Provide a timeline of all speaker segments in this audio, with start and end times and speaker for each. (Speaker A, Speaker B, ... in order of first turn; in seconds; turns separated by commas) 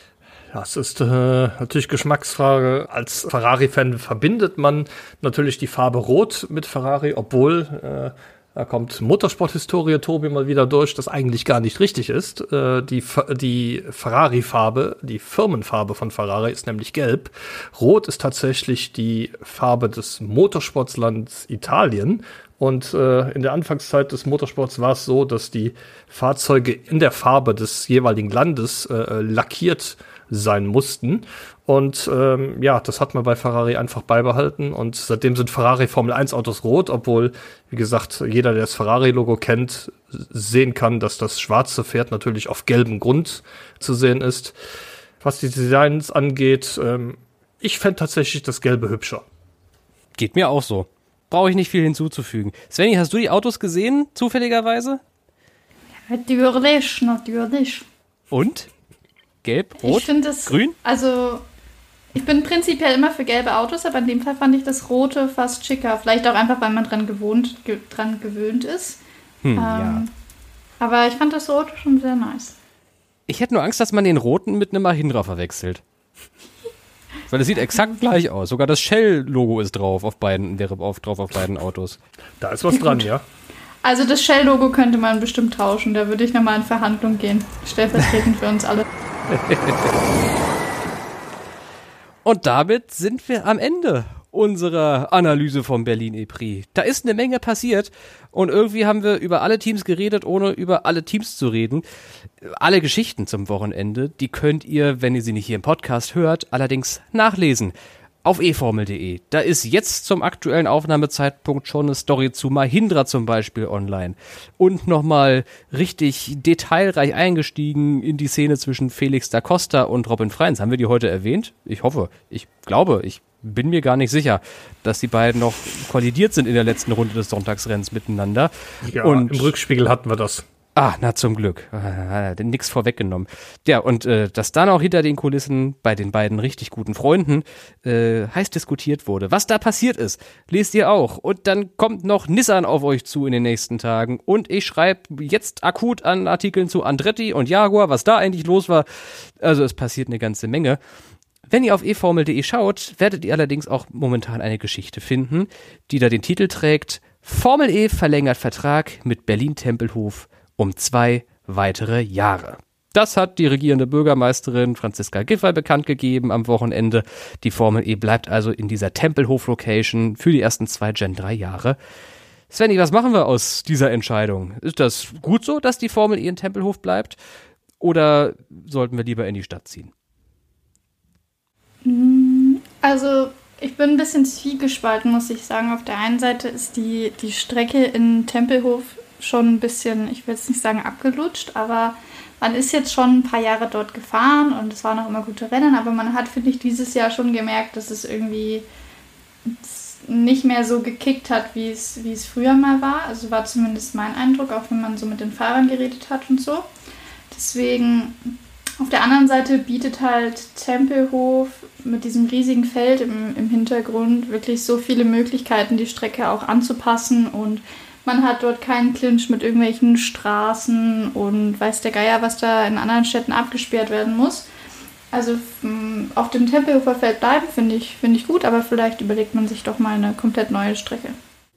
Speaker A: 0.5-44.5, Speaker A: 45.2-49.2, Speaker B: 50.2-55.0, Speaker C: 56.1-57.9, Speaker B: 58.3-58.7, Speaker B: 59.4-60.8, Speaker C: 59.8-61.4, Speaker C: 62.1-69.0, Speaker B: 69.4-70.0, Speaker C: 69.5-70.1, Speaker C: 70.8-72.5, Speaker B: 73.3-75.8, Speaker B: 77.3-82.0, Speaker A: 82.4-83.2, Speaker C: 83.8-88.8, Speaker B: 89.3-89.9, Speaker B: 92.2-101.8, Speaker B: 102.4-107.7, Speaker B: 108.2-129.5, Speaker A: 128.8-130.5, Speaker B: 130.8-150.8, Speaker B: 151.5-171.8, Speaker B: 172.5-177.2, Speaker B: 177.8-179.9, Speaker C: 181.8-198.7, Speaker C: 199.4-206.7, Speaker C: 207.3-224.5, Speaker C: 225.1-231.2